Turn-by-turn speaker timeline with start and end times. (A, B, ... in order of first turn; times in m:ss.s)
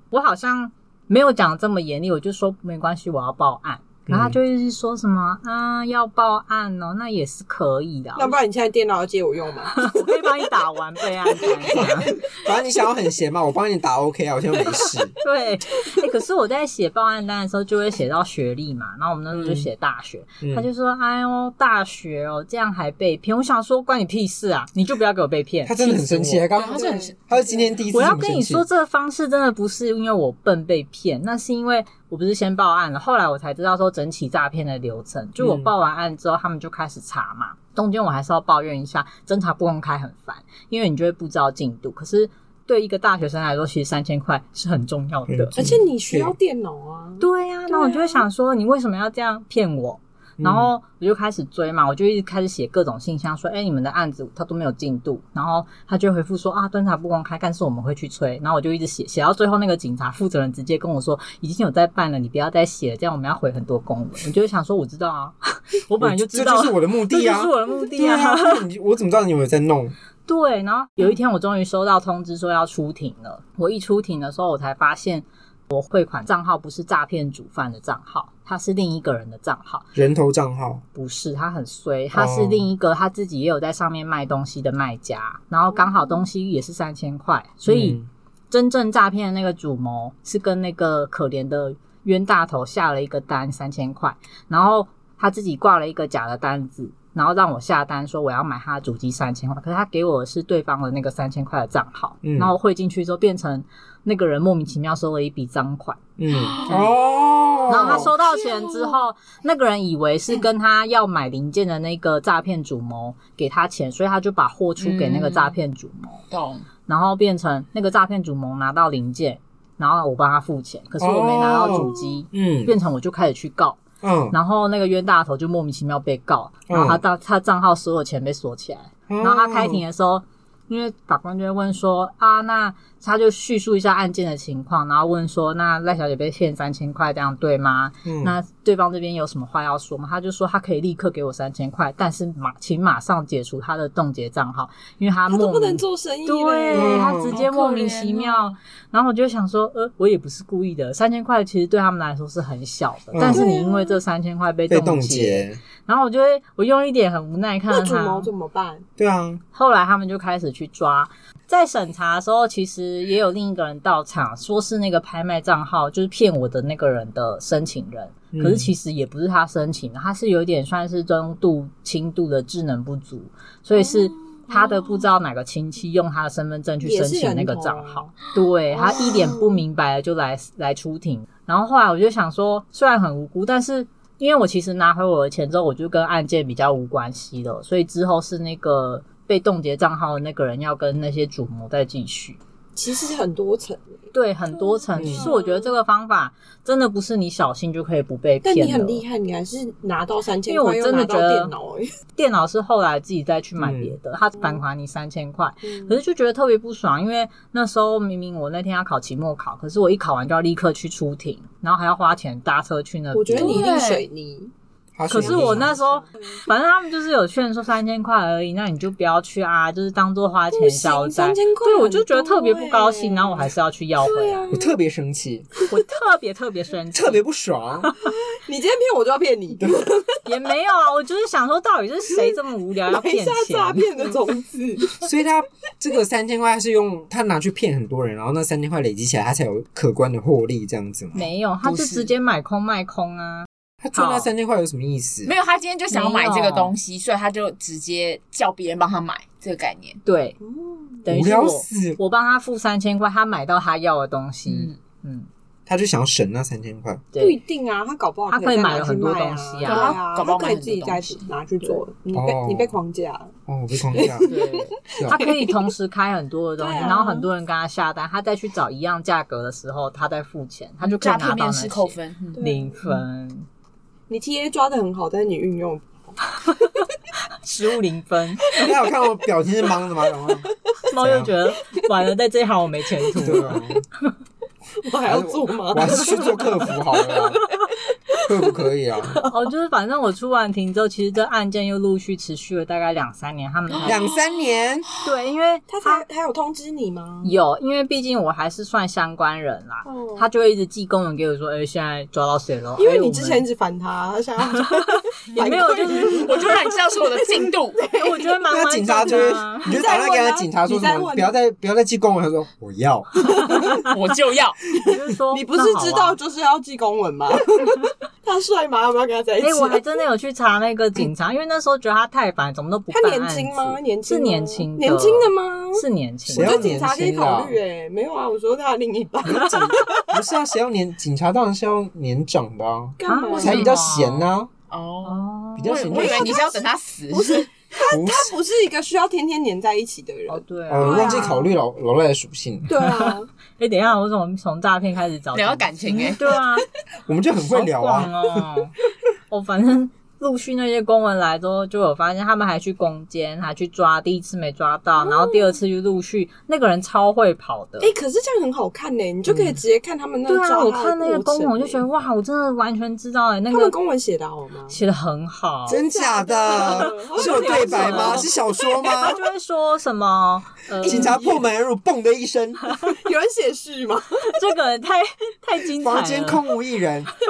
0:00.1-0:08.4 A
0:04.1-0:04.4 B
0:08.2-0:10.4 C
0:09.7-0:12.2 A
0:11.3-0:12.5 C
0:11.8-0:15.1 B
0:15.2-0:26.5 A
0:19.3-0:19.7 B
0:20.4-0:20.7 B
0:25.6-0:28.6 B
0:26.6-0:27.2 D
0:26.6-0:27.9 C
0:27.9-0:45.6 A
0:35.4-0:35.7 B
0:45.3-0:46.4 B
0:45.6-0:48.3 C
0:47.2-1:08.6 A
0:50.4-0:50.7 B
1:06.0-1:10.0 B
1:10.3-1:19.9 A
1:20.0-1:20.8 B
1:21.0-1:28.0 A
1:22.1-1:22.7 B
1:27.7-1:28.1 B
1:28.5-1:46.0 A
1:42.2-1:42.5 B
1:46.2-1:48.1 B
1:46.3-1:47.0 D
1:46.6-1:46.9 A
1:47.6-1:49.0 D
1:47.7-1:56.2 A
1:54.8-1:55.6 D
1:56.3-1:56.7 D
1:56.9-2:38.3 A
2:01.0-2:02.7 B
2:01.7-2:02.0 C
2:04.0-2:04.4 B
2:06.7-2:07.0 B
2:09.1-2:09.8 B
2:18.0-2:18.4 B
2:25.3-2:27.1 C
2:26.7-2:27.4 B
2:27.3-2:28.6 D
2:33.1-2:33.5 B
2:33.3-2:34.0 C
2:34.7-2:35.6 B
2:37.7-2:38.9 C
2:39.0-2:39.4 B
2:39.5-3:12.4 A
2:48.3-2:48.7 B
2:53.8-2:54.4 C
2:56.8-2:58.2 C
2:58.7-2:59.6 C
3:12.8-3:15.7 C
3:14.1-3:19.0 A
3:15.0-3:15.3 B
3:18.4-3:21.9 C
3:20.5-3:21.5 A
3:22.2-3:33.8 A
3:23.6-3:24.0 B
3:25.6-3:26.0 C
3:33.1-3:34.5 C
3:33.4-3:34.0 D
3:35.0-3:35.7 B
3:35.1-3:44.5 A
3:35.1-3:36.4 C
3:40.5-3:44.8 C
3:44.5-3:45.5 B
3:45.7-3:47.2 A
3:46.9-3:47.9 B
3:48.0-3:50.2 C
3:50.3-3:54.1 A
3:52.8-3:55.1 C
3:55.0-4:01.3 B
4:01.1-4:04.3 A
4:01.6-4:02.1 D
4:03.8-4:05.3 B
4:05.2-4:10.0 D
4:05.9-4:06.7 A
4:10.0-4:10.4 A
4:10.4-4:11.0 C
4:11.0-4:15.3 A
4:11.1-4:12.0 B
4:14.5-4:14.8 D
4:15.7-4:17.0 B
4:17.1-4:17.4 A
4:17.2-4:23.3 C
4:18.3-4:20.0 A
4:19.6-4:21.3 D
4:22.1-4:22.8 B
4:23.5-4:24.4 B
4:23.9-4:25.6 C
4:24.2-4:33.5 A
4:24.9-4:25.2 B
4:26.6-4:27.3 C
4:30.8-4:32.4 D
4:32.4-4:32.7 C
4:34.1-4:36.3 C
4:37.4-4:38.5 A
4:38.5-4:38.8 C
4:38.6-4:41.3 B
4:40.1-4:40.5 C
4:40.9-4:43.6 A
4:43.1-4:43.6 C
4:43.2-4:43.8 B
4:44.8-4:49.5 C
4:45.0-4:47.4 B
4:48.2-4:49.2 B
4:49.3-4:54.1 A
4:53.7-4:54.3 D
4:53.8-4:54.9 B
4:55.0-4:56.1 A
4:55.7-4:57.3 C
4:57.2-5:03.5 A
4:59.8-5:00.3 C
5:02.8-5:08.4 C
5:05.3-5:06.3 A
5:06.1-5:07.9 D
5:07.9-5:09.8 A
5:08.5-5:13.4 B
5:09.1-5:11.3 C
5:13.4-5:13.8 C
5:13.8-5:14.6 D
5:14.8-5:16.2 A
5:15.3-5:19.8 C
5:19.4-5:26.8 A
5:22.9-5:30.2 C
5:26.3-5:27.6 B
5:29.2-5:34.5 B
5:33.0-5:33.7 C
5:33.1-5:34.3 A
5:33.3-5:33.8 D
5:34.7-5:37.5 D
5:35.0-5:36.1 A
5:35.6-5:36.4 B
5:35.9-5:41.5 C
5:37.9-5:38.3 B
5:40.3-5:41.3 A
5:40.7-5:42.7 B
5:42.7-5:43.3 C
5:42.8-5:46.7 A
5:45.3-5:46.4 D
5:47.1-5:48.4 B
5:47.4-5:48.8 A
5:49.3-5:57.9 A
5:55.0-5:55.6 C
5:57.8-6:01.8 C
5:59.3-5:59.6 B
6:00.3-6:03.8 A
6:03.5-6:04.8 C
6:04.7-6:05.8 A
6:05.7-6:09.2 B
6:05.7-6:09.1 C
6:06.5-6:08.3 A
6:08.8-6:11.3 A
6:10.8-6:12.7 B
6:10.8-6:11.4 C
6:12.9-6:14.4 C
6:14.2-6:16.4 A
6:15.8-6:17.1 B